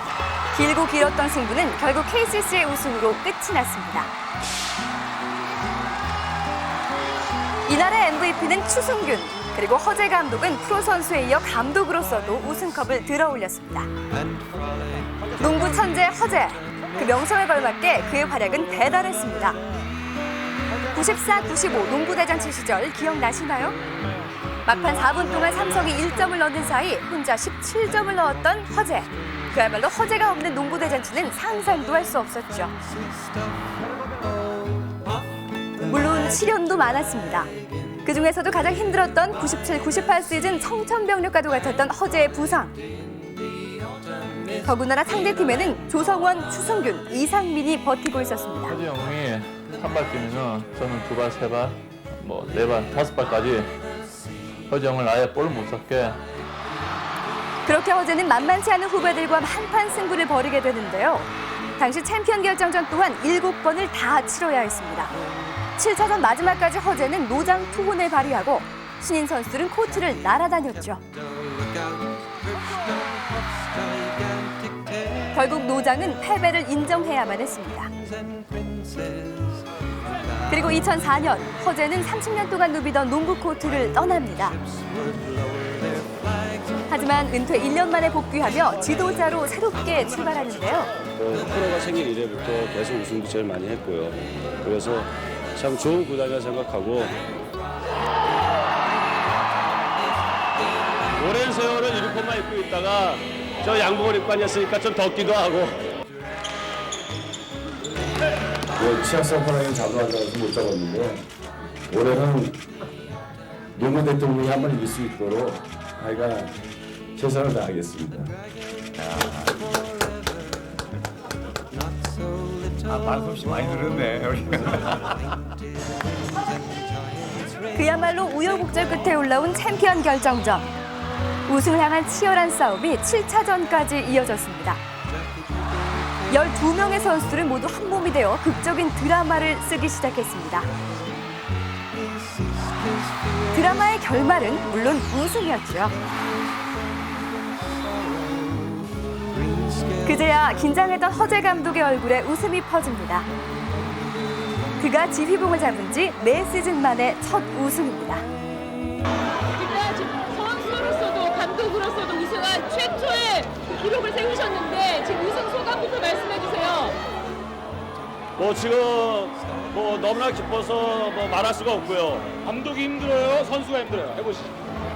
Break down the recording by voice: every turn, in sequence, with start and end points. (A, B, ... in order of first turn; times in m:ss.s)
0:00.5-0:04.1 A
0:07.7-0:13.9 A
0:15.3-0:19.6 A
0:20.9-0:23.8 A
0:24.6-0:32.7 A
0:35.8-0:37.5 A
0:38.0-0:42.8 A
0:44.6-0:48.8 A
0:48.7-0:53.7 B
0:54.7-0:56.2 B
0:57.7-1:05.1 A
1:05.8-1:11.0 A
1:15.3-1:17.9 A
1:20.5-1:24.6 A
1:26.9-1:30.9 A
1:31.2-1:37.1 C
1:41.2-1:45.8 C
1:48.8-1:51.2 D
1:51.9-1:52.6 D
1:53.8-1:56.5 D
1:57.1-1:58.3 D
2:02.9-2:05.0 E
2:07.7-2:10.7 A
2:11.5-2:14.8 A
2:16.3-2:20.7 A
2:23.5-2:26.0 A
2:29.8-2:33.3 A
2:34.8-2:38.2 A
2:39.5-2:47.0 F
2:48.4-2:54.5 C